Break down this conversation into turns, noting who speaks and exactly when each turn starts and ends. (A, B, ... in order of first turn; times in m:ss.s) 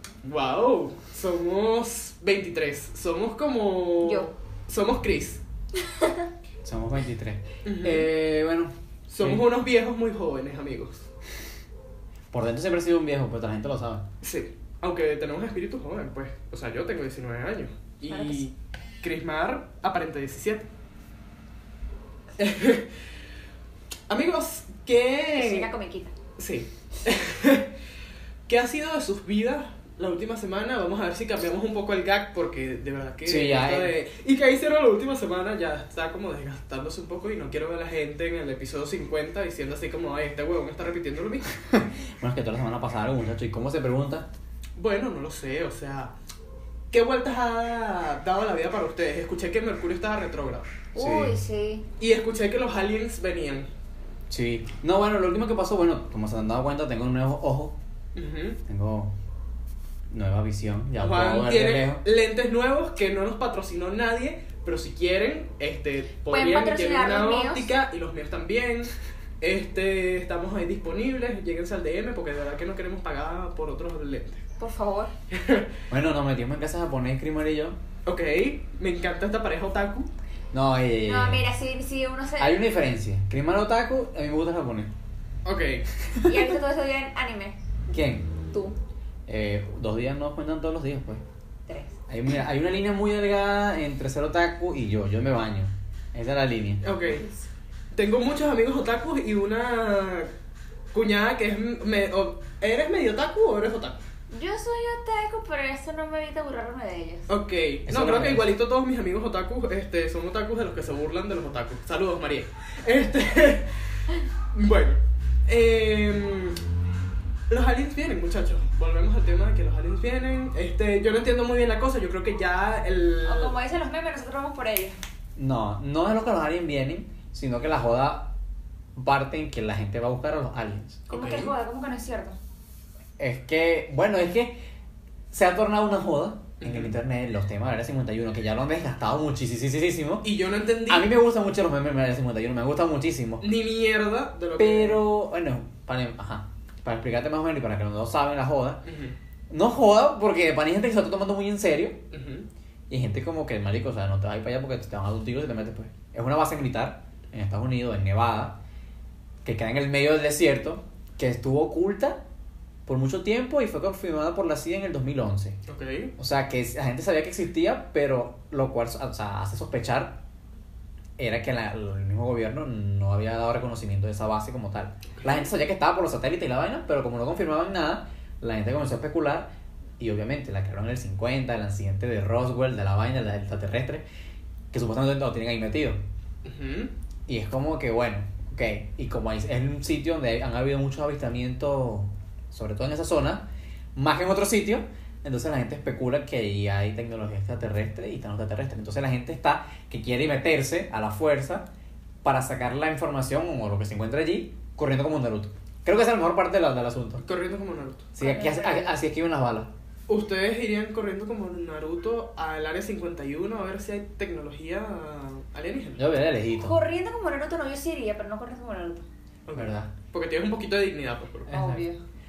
0:00.2-0:05.4 A
0:04.0-0:04.3 B
0:05.9-0:06.2 B
0:06.6-0:09.4 C
0:07.6-0:08.1 A
0:09.1-0:11.1 A
0:12.3-0:14.0 C
0:14.2-0:20.7 A
0:18.1-0:18.5 B
0:22.4-0:22.9 A
0:24.1-0:25.7 A
0:25.4-0:26.1 B
0:26.4-0:27.7 A
0:28.5-0:41.5 A
0:33.2-0:33.9 C
0:41.6-0:44.3 C
0:44.8-0:46.1 A
0:46.9-0:50.7 A
0:51.0-0:51.9 B
0:51.0-0:51.4 C
0:52.0-0:53.7 A
0:54.3-0:57.8 C
0:58.2-0:58.6 A
0:58.7-0:59.1 C
1:00.1-1:02.0 C
1:01.0-1:14.4 A
1:06.3-1:07.7 B
1:14.6-1:15.1 B
1:15.3-1:15.7 A
1:15.9-1:17.8 C
1:18.1-1:20.1 A
1:20.5-1:21.4 C
1:21.0-1:22.6 B
1:22.4-1:24.9 C
1:25.4-1:25.9 A
1:26.2-1:27.6 B
1:27.9-1:28.3 C
1:29.3-1:31.2 C
1:31.7-1:32.0 B
1:32.1-1:36.8 C
1:36.8-1:37.2 A
1:37.1-1:37.4 B
1:37.9-1:40.3 A
1:40.9-1:44.0 A
1:44.3-1:47.3 B
1:47.3-1:53.7 A
1:47.9-1:48.5 C
1:54.5-1:56.6 A
1:57.5-2:03.5 A
2:03.3-2:05.0 B
2:05.4-2:08.3 C
2:09.0-2:11.0 C
2:11.1-2:12.4 B
2:11.1-2:11.5 A
2:13.2-2:14.6 C
2:15.3-2:20.3 C
2:16.6-2:16.9 A
2:20.2-2:21.1 A
2:20.9-2:23.4 C
2:23.4-2:25.0 A
2:24.6-2:28.8 C
2:28.8-2:29.2 A
2:29.5-2:32.0 C
2:32.1-2:32.5 A
2:32.9-2:38.6 C
2:39.4-2:42.2 C
2:42.9-2:45.6 C
2:45.7-2:46.1 A
2:46.2-2:50.2 C
2:51.2-3:04.0 C
2:55.2-2:55.4 A
3:04.7-3:06.0 C
3:06.4-3:06.9 A
3:07.3-3:21.7 C
3:22.2-3:27.2 C
3:27.2-3:28.1 A
3:28.2-3:29.7 C
3:28.2-3:29.0 B
3:30.1-3:36.0 A
3:36.0-3:36.8 C
3:36.6-3:39.1 B
3:39.5-3:41.5 A
3:39.6-3:39.9 C
3:41.5-3:41.8 C
3:41.5-3:42.0 B